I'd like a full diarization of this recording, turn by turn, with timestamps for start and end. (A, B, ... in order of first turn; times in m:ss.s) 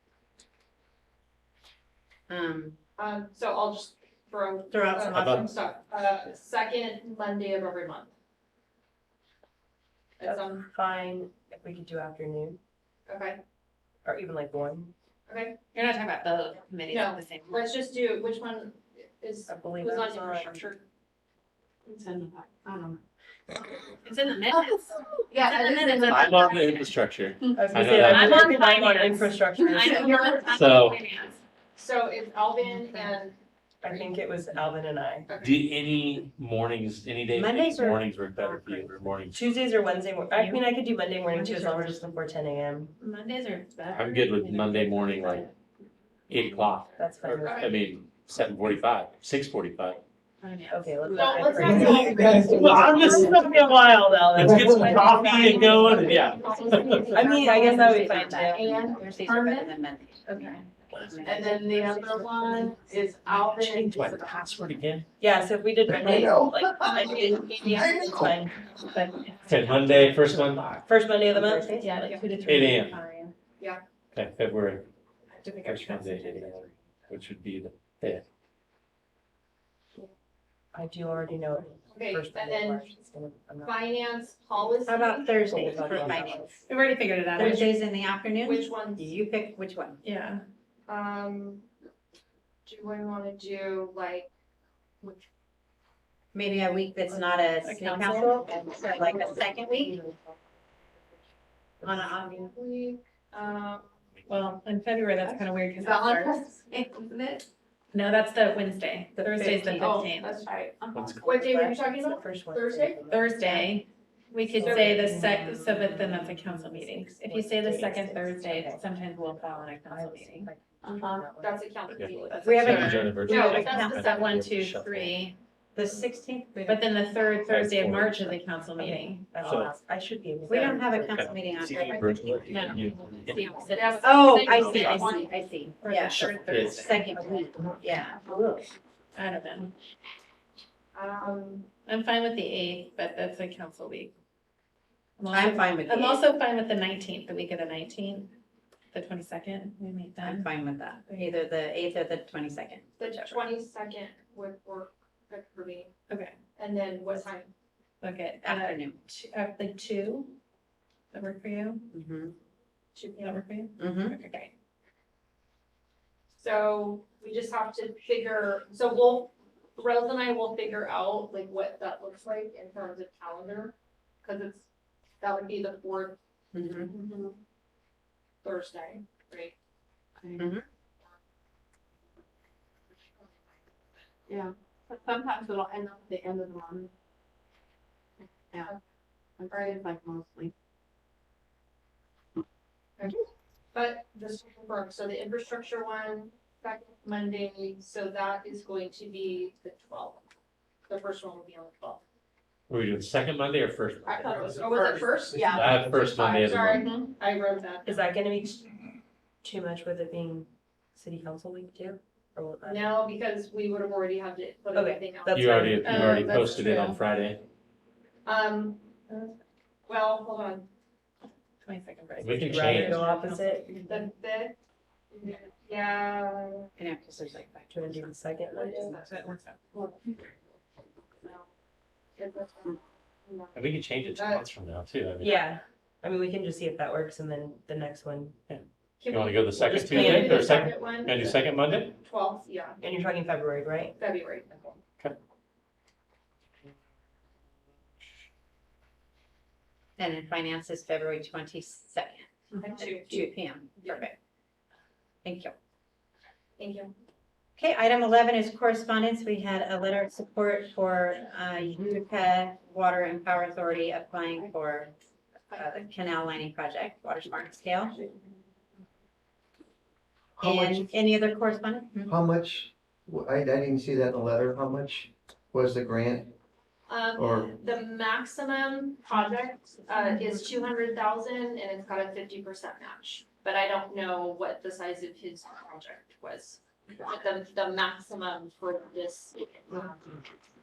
0:02.3-0:02.8 A
0:03.0-0:08.1 B
0:04.7-0:05.5 A
0:05.1-0:05.5 C
0:10.2-0:10.7 B
0:10.2-0:12.6 D
0:13.1-0:13.4 B
0:14.0-0:14.9 D
0:15.3-0:15.6 B
0:15.7-0:17.7 E
0:16.9-0:20.8 B
0:19.5-0:20.7 D
0:22.2-0:22.7 E
0:22.5-0:22.9 F
0:24.0-0:26.8 E
0:25.3-0:26.5 B
0:26.0-0:28.5 C
0:27.5-0:30.4 D
0:27.8-0:31.4 F
0:29.9-0:30.5 B
0:30.4-0:31.0 C
0:31.8-0:34.1 B
0:33.8-0:35.3 D
0:35.3-0:35.6 B
0:35.4-0:39.6 C
0:37.3-0:39.0 A
0:39.3-0:42.9 D
0:40.3-0:40.6 E
0:41.3-0:42.0 E
0:43.0-0:45.5 E
0:43.9-0:45.5 C
0:46.3-0:50.0 C
0:47.0-0:47.7 D
0:47.4-0:47.7 B
0:50.4-0:51.3 E
0:50.7-0:55.3 D
0:51.0-0:53.5 B
0:51.6-0:52.9 F
0:51.7-0:57.3 C
0:51.8-0:52.6 E
0:54.6-0:59.7 B
0:55.9-0:56.2 E
0:57.0-0:58.9 D
0:57.3-1:02.9 A
0:57.3-0:58.4 E
1:00.3-1:00.6 E
1:01.0-1:01.3 C
1:01.2-1:04.5 F
1:01.3-1:02.4 B
1:03.3-1:05.1 C
1:05.2-1:08.6 D
1:05.9-1:08.4 G
1:06.9-1:08.1 B
1:08.9-1:10.9 E
1:09.5-1:10.8 C
1:10.8-1:11.9 D
1:11.4-1:13.4 E
1:11.9-1:12.3 B
1:12.4-1:13.0 C
1:14.1-1:14.9 C
1:15.4-1:16.8 E
1:15.6-1:18.2 C
1:20.7-1:23.8 D
1:21.9-1:23.0 B
1:23.6-1:25.6 B
1:24.8-1:26.5 A
1:25.4-1:26.6 D
1:26.7-1:27.7 E
1:27.3-1:30.0 A
1:27.4-1:27.8 B
1:28.4-1:29.1 B
1:30.0-1:30.4 E
1:30.9-1:31.7 B
1:32.7-1:34.3 B
1:36.3-1:40.0 A
1:37.6-1:38.5 E
1:39.0-1:40.2 F
1:41.8-1:42.5 A
1:41.8-1:43.9 B
1:44.3-1:46.4 E
1:45.2-1:47.4 B
1:47.9-1:50.5 E
1:49.2-1:49.8 D
1:49.5-1:53.1 B
1:50.9-1:51.5 C
1:51.4-1:53.8 D
1:53.1-2:00.5 E
1:54.4-2:01.8 D
1:54.6-1:55.1 B
2:00.8-2:01.3 F
2:01.0-2:03.7 B
2:01.9-2:05.3 C
2:02.3-2:05.4 E
2:02.4-2:04.3 A
2:05.8-2:06.9 A
2:06.7-2:09.3 E
2:07.5-2:08.4 C
2:08.8-2:11.4 D
2:09.4-2:09.8 C
2:10.5-2:12.4 A
2:11.0-2:13.6 C
2:12.5-2:15.1 E
2:13.7-2:15.3 B
2:14.0-2:18.3 A
2:14.5-2:15.1 C
2:15.8-2:17.4 E
2:16.4-2:16.9 C
2:17.2-2:18.6 D
2:19.2-2:19.7 E
2:20.9-2:21.7 B
2:21.9-2:24.1 E
2:25.2-2:28.3 E
2:25.3-2:26.2 A
2:28.9-2:30.5 E
2:30.2-2:33.5 A
2:33.0-2:35.9 B
2:36.1-2:36.4 E
2:36.6-2:37.5 B
2:38.0-2:40.4 E
2:38.4-2:39.0 A
2:41.1-2:41.8 E
2:41.9-2:42.4 A
2:43.0-2:43.4 B
2:43.2-2:44.5 E
2:43.8-2:44.2 A
2:46.4-2:54.7 B
2:55.2-2:56.2 B
2:56.5-2:56.9 A
2:56.9-2:57.3 F
2:56.9-2:57.2 B
2:58.4-2:59.6 B
3:00.4-3:00.6 A
3:04.3-3:06.9 F
3:09.4-3:10.5 F
3:09.5-3:09.8 B
3:13.7-3:20.2 B
3:20.9-3:22.0 B
3:22.7-3:26.9 C
3:24.1-3:25.8 F
3:24.2-3:28.1 B
3:27.9-3:28.7 D
3:29.4-3:33.0 D
3:32.7-3:35.8 B
3:34.7-3:36.5 D
3:35.3-3:37.4 C
3:35.8-3:37.0 E
3:38.2-3:38.9 B
3:39.1-3:39.4 E
3:39.9-3:40.7 B
3:41.6-3:44.1 E
3:42.2-3:43.0 C
3:42.4-3:43.8 D
3:43.9-3:44.6 B
3:45.1-3:46.7 B
3:46.8-3:49.0 A
3:47.7-3:48.9 D
3:48.6-3:49.2 B
3:48.9-3:49.6 E
3:52.2-3:53.6 B
3:53.6-3:55.5 C
3:54.1-3:54.4 B
3:55.2-3:58.4 D
3:58.5-4:02.0 C
3:59.0-4:01.4 B
3:59.8-4:00.7 D
4:02.0-4:02.8 B
4:02.8-4:04.0 D
4:04.0-4:04.8 B
4:10.0-4:14.2 A
4:12.6-4:14.1 B
4:15.2-4:15.6 A
4:16.6-4:16.9 B
4:17.6-4:24.9 A
4:25.5-4:28.0 A
4:30.4-4:30.9 G
4:30.4-4:32.2 A
4:32.1-4:36.3 G
4:36.9-4:50.2 B
4:37.2-4:37.5 G